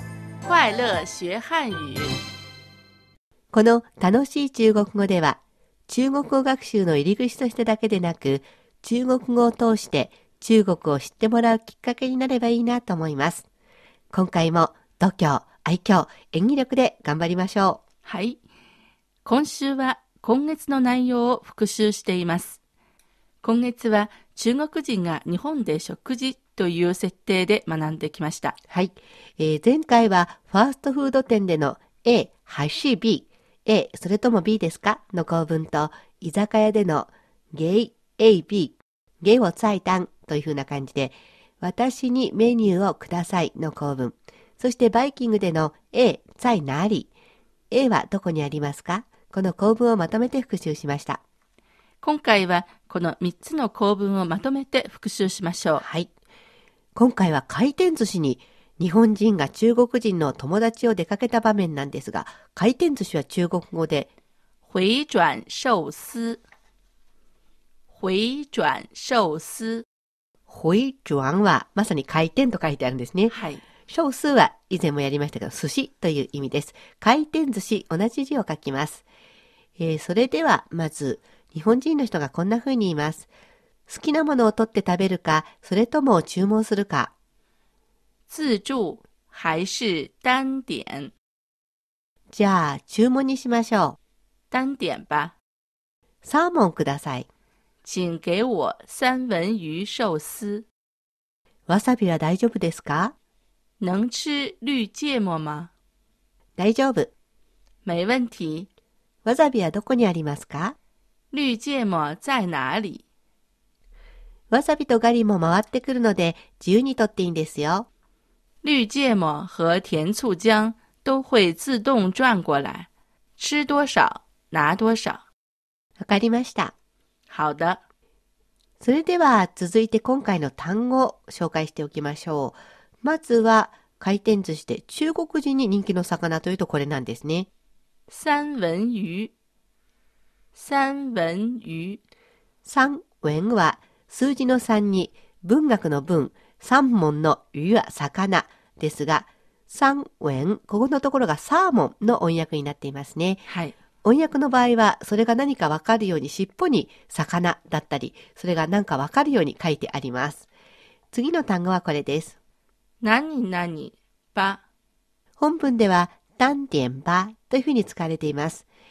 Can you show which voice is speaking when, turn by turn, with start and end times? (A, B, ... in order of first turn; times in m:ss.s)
0:00.4-0:02.1 A
0:03.5-0:13.4 B
0:14.1-0:17.8 B
0:18.0-0:18.4 A
0:19.2-0:22.6 A
0:23.4-0:28.6 A
0:28.7-0:47.1 B
0:47.7-0:51.2 B
0:52.0-0:55.8 A
0:55.8-0:56.1 B
0:57.0-1:04.1 B
1:04.6-1:06.4 A
1:07.9-1:09.8 A
1:10.5-1:13.3 B
1:13.3-1:13.6 A
1:13.9-1:19.0 B
1:19.8-1:23.3 B
1:23.9-1:27.1 B
1:28.3-1:31.1 A
1:32.3-1:34.0 B
1:34.5-1:35.3 A
1:36.2-1:37.3 B
1:37.8-1:40.6 A
1:41.7-1:43.1 B
1:43.8-1:45.7 A
1:46.6-1:47.1 B
1:47.8-1:48.7 A
1:49.2-1:50.8 B
1:51.3-1:53.0 A
1:54.5-1:57.9 B
1:58.6-2:05.2 A
2:06.0-2:06.7 B
2:07.3-2:07.8 A
2:08.8-2:17.5 B
2:18.1-2:19.3 A
2:20.5-2:22.0 A
2:22.6-2:33.4 B
2:33.5-2:33.7 A
2:34.0-2:40.5 B
2:41.1-2:42.4 B
2:43.0-2:44.6 A
2:45.4-2:48.6 B